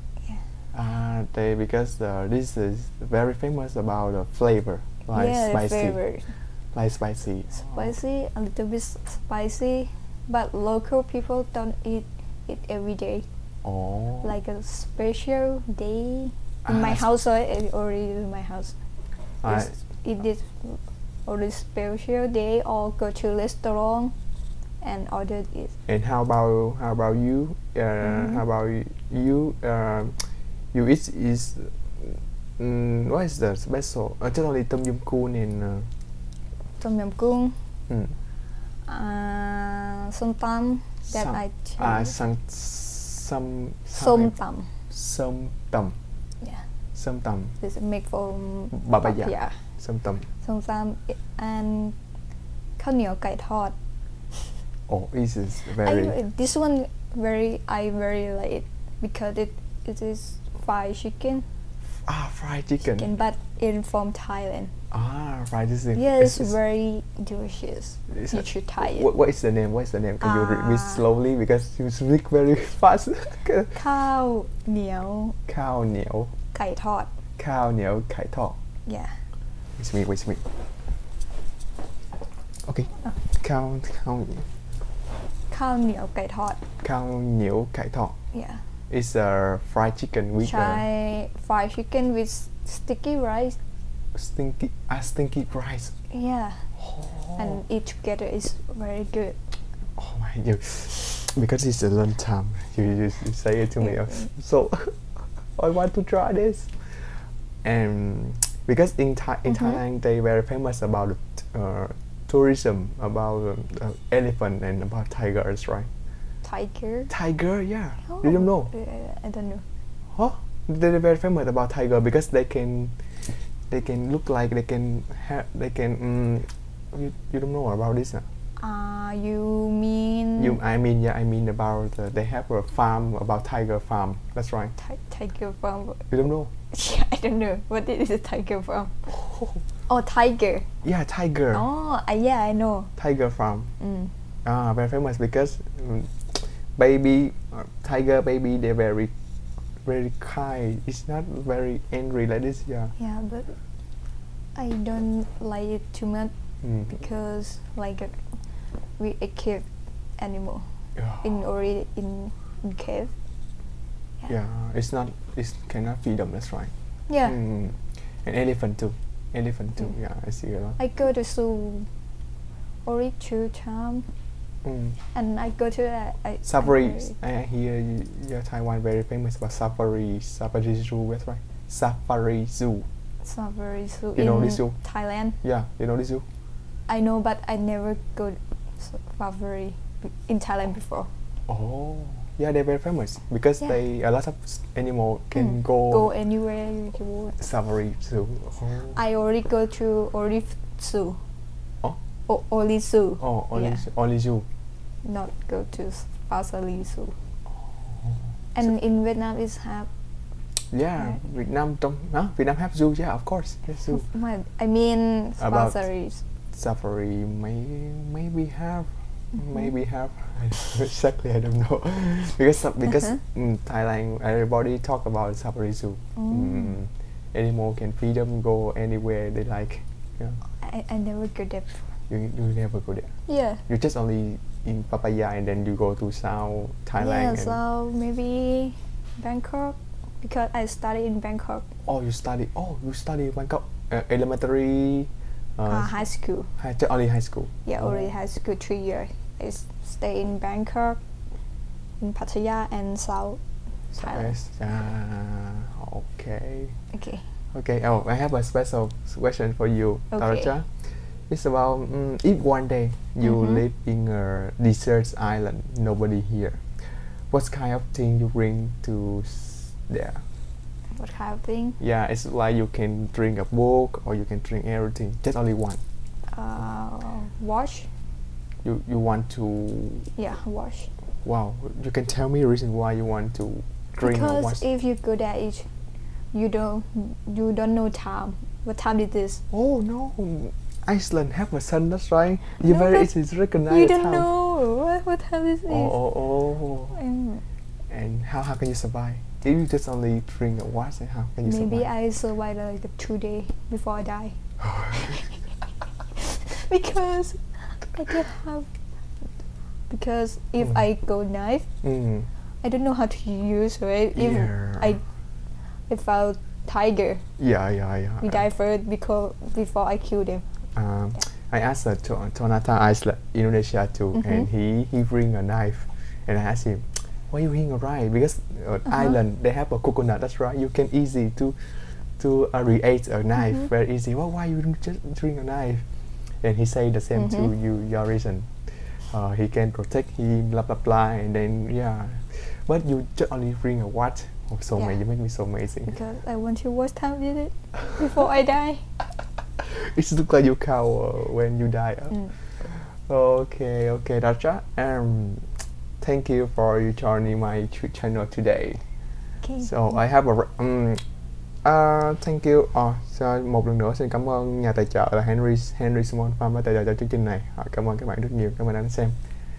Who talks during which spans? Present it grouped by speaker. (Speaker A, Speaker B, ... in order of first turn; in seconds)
Speaker A: 0.7-6.0, 6.7-7.9, 13.6-14.3, 16.6-17.1, 19.4-19.7, 25.9-35.9, 37.9-38.1, 41.1-44.3, 44.9-46.0, 47.0-47.6, 48.7-50.3, 54.9-56.2, 62.0-63.1, 64.9-66.6, 68.1-73.8, 75.5-76.3, 77.4-78.6, 79.8-80.5, 82.6-84.5, 86.8-88.2, 88.9-90.8, 94.2-95.9, 96.8-97.6, 100.0-115.9, 117.1-118.7, 120.1-128.3, 130.4-134.8, 136.1-136.5, 140.8-141.7, 143.0-143.7, 144.4-149.1, 149.8-152.9, 156.6-156.9, 161.0-161.3, 164.3-166.7, 167.2-170.8, 174.6-175.0, 176.4-182.9, 184.2-184.8, 185.4-186.3, 191.5-196.1, 197.4-199.0, 203.2-204.5, 207.9-208.2, 210.6-214.1, 215.4-215.9, 216.5-230.4, 232.1-233.1, 233.7-237.6, 241.8-246.1, 246.6-248.1, 253.9-256.8, 257.5-270.2, 271.8-275.8, 278.6-280.1, 281.2-284.6, 289.5-294.3, 295.7-297.0, 297.9-301.9, 304.7-305.2, 311.8-312.3, 314.1-315.0, 317.4-318.4, 320.8-335.9, 336.4-346.0, 349.6-358.8, 359.6-361.0, 361.6-369.2
Speaker B: 5.1-6.3, 7.5-13.3, 14.2-18.7, 19.5-24.1, 24.8-25.7, 28.0-28.4, 36.8-37.6, 38.9-42.1, 43.9-44.7, 47.6-49.6, 50.4-52.0, 52.8-53.8, 55.7-61.5, 62.8-64.7, 66.0-69.1, 70.2-71.0, 73.7-75.4, 76.5-77.1, 78.8-79.2, 85.5-86.6, 88.3-88.6, 90.4-93.6, 96.1-96.7, 97.4-99.5, 103.8-104.3, 116.4-117.1, 118.1-119.7, 128.6-130.6, 134.8-136.1, 136.7-139.1, 139.9-140.7, 141.5-142.9, 143.8-144.1, 153.0-153.6, 154.6-156.3, 156.9-158.2, 159.0-159.7, 160.2-160.7, 161.2-163.1, 167.1-167.4, 170.8-171.9, 172.8-174.1, 175.1-177.2, 183.2-185.4, 186.9-191.1, 195.3-197.4, 198.9-201.2, 202.3-203.9, 205.0-207.2, 208.6-209.9, 213.9-216.2, 226.2-226.7, 230.6-231.9, 233.3-233.6, 237.0-241.7, 245.7-246.5, 247.7-251.0, 252.0-253.4, 253.9-254.4, 256.9-257.3, 260.1-260.5, 263.2-263.6, 270.9-271.8, 276.3-277.9, 280.2-280.9, 284.0-285.7, 286.3-289.4, 292.6-293.1, 293.7-296.1, 296.9-297.4, 301.4-304.4, 304.9-305.4, 306.2-308.7, 309.9-311.7, 312.6-315.0, 315.9-317.3, 318.2-320.5, 324.1-324.5, 328.9-329.1, 337.2-337.5, 345.9-348.9, 359.4-359.7